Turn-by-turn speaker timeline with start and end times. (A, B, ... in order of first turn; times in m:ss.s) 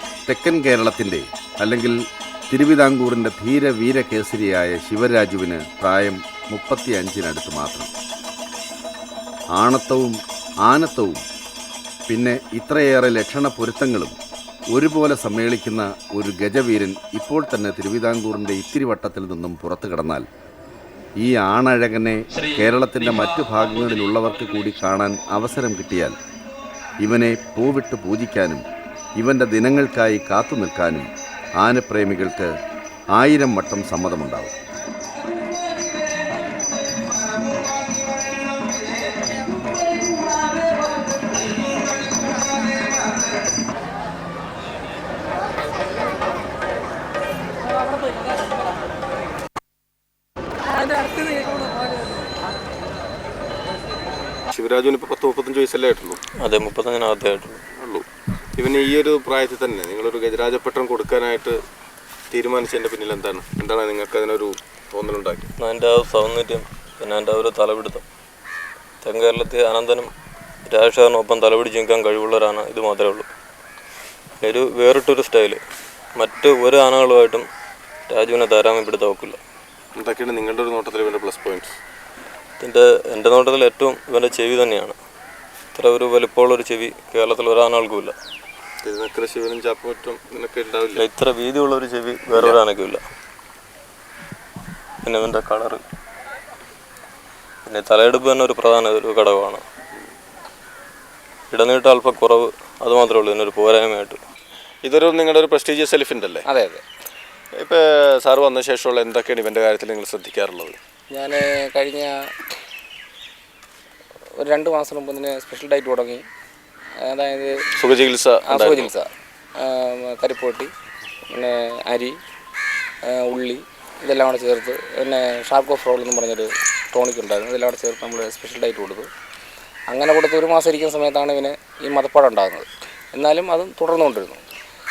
0:00.3-0:07.9 A
0:09.5-0:11.2 A
0:12.1-0:14.2 A
0:14.7-0:20.3 A
0:21.2-0:26.2 A
0:27.0-0:28.6 A
0:29.2-0:32.5 A
0:33.1-0:34.5 A
0:54.5-0:56.2 B
0:56.4-0:57.6 C
0:57.8-0:58.0 B
0:58.6-1:01.6 B
1:02.3-1:05.5 B
1:05.6-1:08.0 C
1:09.0-1:10.1 C
1:10.6-1:13.3 C
1:14.4-1:15.6 C
1:16.2-1:17.5 C
1:18.1-1:19.4 C
1:20.0-1:21.8 B
1:22.6-1:25.0 C
1:25.7-1:28.1 C
1:28.8-1:31.0 B
1:31.0-1:33.0 C
1:32.3-1:32.6 B
1:35.0-1:35.8 C
1:37.6-1:39.6 C
1:41.5-1:44.2 C
1:44.8-1:46.4 B
1:46.5-1:46.8 D
1:47.6-1:50.8 B
1:51.1-1:52.3 D
1:54.4-1:56.2 D
1:57.0-1:57.6 D
1:57.8-1:58.9 B
1:58.4-2:00.7 D
2:01.3-2:02.2 D
2:03.0-2:09.1 D
2:09.9-2:14.4 D